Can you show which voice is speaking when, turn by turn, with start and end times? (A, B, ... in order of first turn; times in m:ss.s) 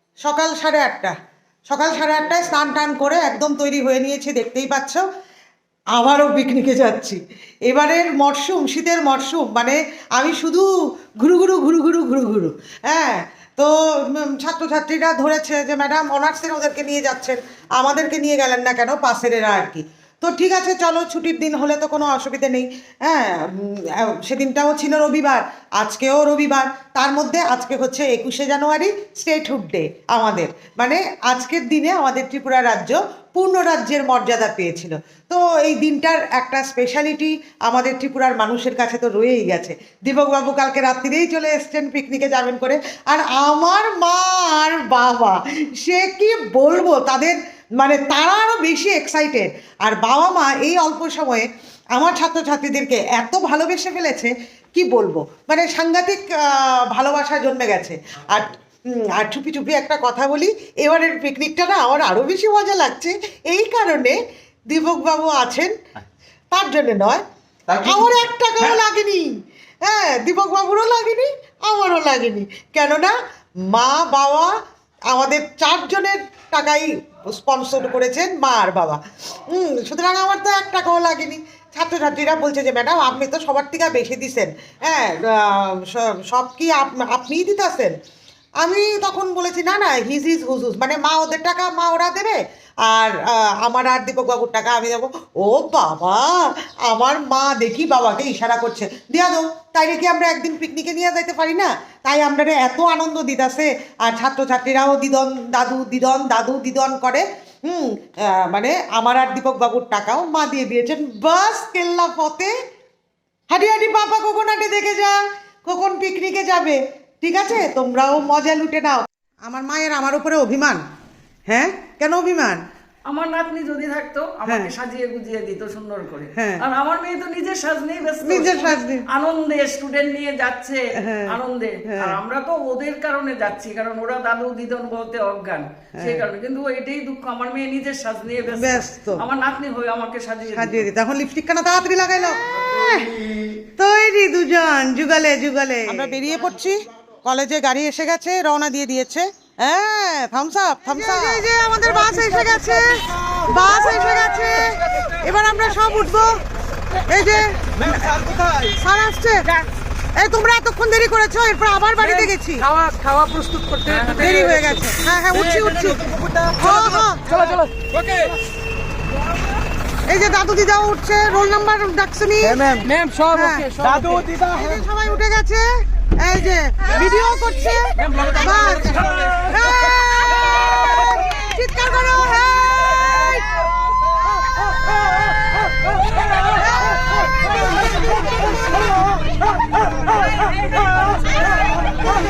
0:00.2-0:01.2 A
0:01.7-0:05.0 A
0:06.0-1:04.2 A
1:04.7-1:05.7 A
1:06.5-1:07.2 A
1:07.7-1:08.2 B
1:07.8-1:14.6 A
1:15.1-1:27.9 A
1:28.6-1:52.5 A
1:53.5-2:00.8 A
2:01.5-2:02.6 A
2:03.1-2:20.9 C
2:06.4-2:06.6 A
2:08.2-2:09.0 A
2:11.0-2:11.3 A
2:11.9-2:12.2 A
2:18.6-2:19.2 A
2:20.6-2:23.1 A
2:23.8-2:36.4 A
2:37.1-2:38.0 A
2:37.8-2:38.8 B
2:38.8-2:39.5 A
2:40.2-2:42.6 A
2:42.0-2:44.7 C
2:44.2-2:46.0 A
2:45.2-2:47.5 B
2:46.6-2:47.2 A
2:47.3-2:48.2 C
2:50.1-2:52.6 A
2:52.4-2:52.9 B
2:52.8-2:54.1 C
2:53.3-2:53.6 A
2:53.8-2:54.8 B
2:54.5-2:55.6 A
2:56.2-3:03.4 A
2:58.0-2:59.4 C
3:06.6-3:07.4 A